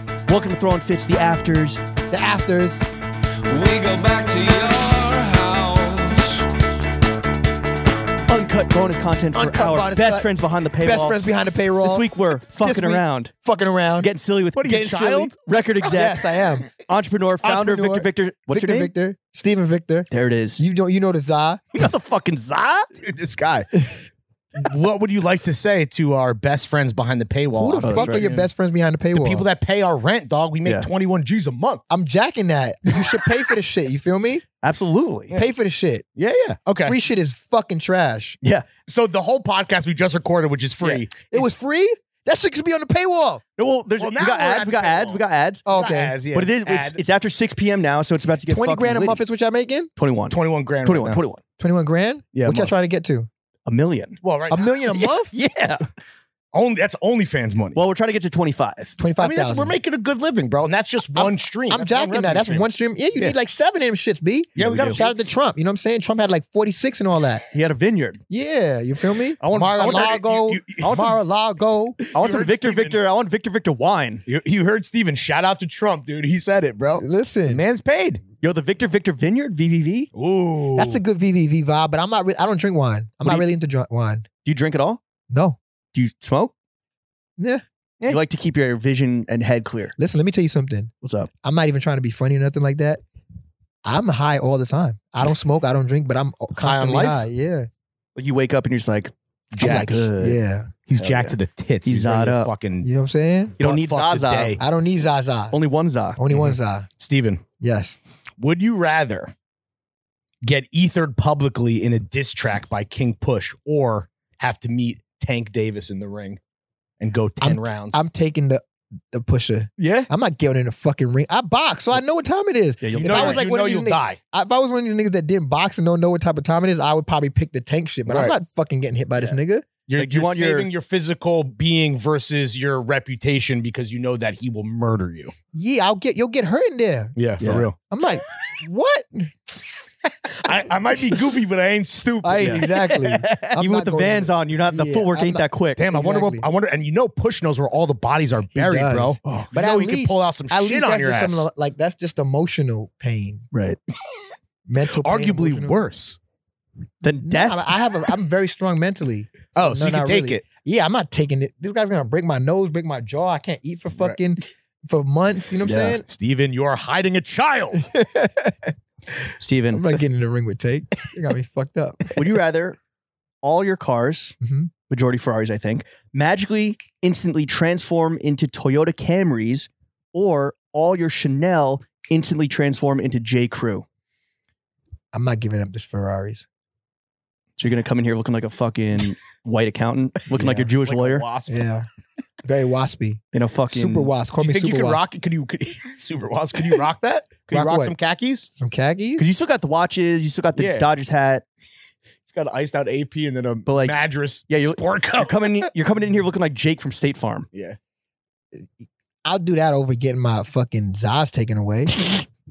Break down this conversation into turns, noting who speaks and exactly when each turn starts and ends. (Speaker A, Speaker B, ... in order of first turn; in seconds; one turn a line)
Speaker A: 0.3-1.8
Speaker B: 2.1-2.8
Speaker C: 3.5-6.5
Speaker A: 8.3-11.2
Speaker B: 9.3-10.3
Speaker B: 10.8-14.1
Speaker A: 11.8-13.3
Speaker A: 14.0-18.9
Speaker D: 14.6-15.3
Speaker B: 14.6-15.3
Speaker B: 15.8-16.7
Speaker D: 15.9-16.3
Speaker B: 17.4-21.6
Speaker A: 20.1-20.6
Speaker A: 21.7-22.9
Speaker D: 23.0-23.7
Speaker D: 24.6-28.5
Speaker B: 27.5-29.4
Speaker A: 27.8-28.3
Speaker D: 29.1-31.8
Speaker B: 31.9-34.4
Speaker A: 34.6-35.3
Speaker B: 35.3-36.0
Speaker D: 36.1-37.0
Speaker B: 36.8-38.4
Speaker A: 38.4-38.7
Speaker D: 38.9-41.3
Speaker A: 40.8-41.5
Speaker B: 41.3-43.4
Speaker A: 43.6-45.6
Speaker D: 44.0-47.0
Speaker B: 45.6-46.1
Speaker A: 46.3-49.2
Speaker B: 48.5-49.9
Speaker A: 50.0-51.4
Speaker D: 50.3-51.2
Speaker B: 51.6-53.3
Speaker D: 52.3-52.7
Speaker A: 53.6-54.2
Speaker D: 54.2-55.0
Speaker B: 54.5-55.3
Speaker A: 54.9-55.8
Speaker D: 56.5-57.8
Speaker A: 57.7-58.9
Speaker B: 59.0-59.7
Speaker D: 59.2-63.3
Speaker B: 61.1-67.5
Speaker D: 64.5-65.2
Speaker A: 64.6-65.0
Speaker A: 67.5-68.2
Speaker B: 68.3-72.0
Speaker A: 69.4-70.1
Speaker D: 69.4-71.0
Speaker A: 70.8-71.2
Speaker D: 72.0-73.0
Speaker A: 72.1-74.2
Speaker D: 74.2-78.2
Speaker B: 77.0-77.6
Speaker A: 78.4-80.1
Speaker D: 80.1-81.0
Speaker B: 80.8-84.2
Speaker A: 84.4-85.0
Speaker B: 85.3-85.6
Speaker A: 85.9-86.5
Speaker B: 87.4-87.6
Speaker A: 88.0-89.9
Speaker B: 90.0-90.9
Speaker A: 91.0-91.3
Speaker B: 91.4-93.0
Speaker B: 93.8-97.7
Speaker D: 96.5-97.2
Speaker A: 98.2-99.1
Speaker D: 99.5-100.0
Speaker B: 99.6-100.7
Speaker A: 99.7-100.4
Speaker D: 100.9-102.9
Speaker A: 100.9-102.5
Speaker B: 102.8-103.6
Speaker A: 103.6-104.6
Speaker D: 103.6-104.6
Speaker B: 104.6-105.5
Speaker A: 105.5-106.2
Speaker B: 106.2-106.9
Speaker D: 106.3-107.4
Speaker B: 107.6-108.0
Speaker D: 108.4-109.3
Speaker D: 110.4-116.4
Speaker D: 117.0-118.0
Speaker B: 117.4-129.7
Speaker D: 119.8-120.1
Speaker A: 122.8-123.4
Speaker D: 122.9-124.2
Speaker D: 128.1-128.3
Speaker D: 129.8-135.3
Speaker A: 129.9-130.7
Speaker B: 135.5-137.1
Speaker D: 137.2-137.8
Speaker A: 137.4-137.7
Speaker B: 137.9-139.9
Speaker D: 140.4-143.2
Speaker B: 142.2-146.4
Speaker A: 142.4-145.8
Speaker D: 145.8-151.4
Speaker B: 148.5-153.5
Speaker A: 149.2-149.5
Speaker A: 153.5-153.8
Speaker B: 154.7-155.8
Speaker D: 154.9-156.2
Speaker A: 157.0-157.6
Speaker B: 157.2-166.1
Speaker D: 159.5-160.4
Speaker A: 165.7-166.0
Speaker D: 166.1-167.8
Speaker B: 167.7-168.7
Speaker A: 169.4-169.8
Speaker B: 169.7-172.4
Speaker A: 172.2-172.8
Speaker A: 173.4-174.3
Speaker B: 174.4-174.7
Speaker A: 174.9-183.8
Speaker B: 185.1-186.4
Speaker A: 187.6-191.2
Speaker B: 190.3-190.7
Speaker D: 190.8-191.7
Speaker B: 191.5-191.9
Speaker B: 192.4-195.0
Speaker A: 193.3-194.1
Speaker D: 194.4-198.5
Speaker B: 197.5-197.9
Speaker B: 198.5-199.2
Speaker A: 199.2-201.4
Speaker D: 200.6-200.9
Speaker D: 202.2-205.7
Speaker A: 203.7-207.5
Speaker B: 208.5-212.2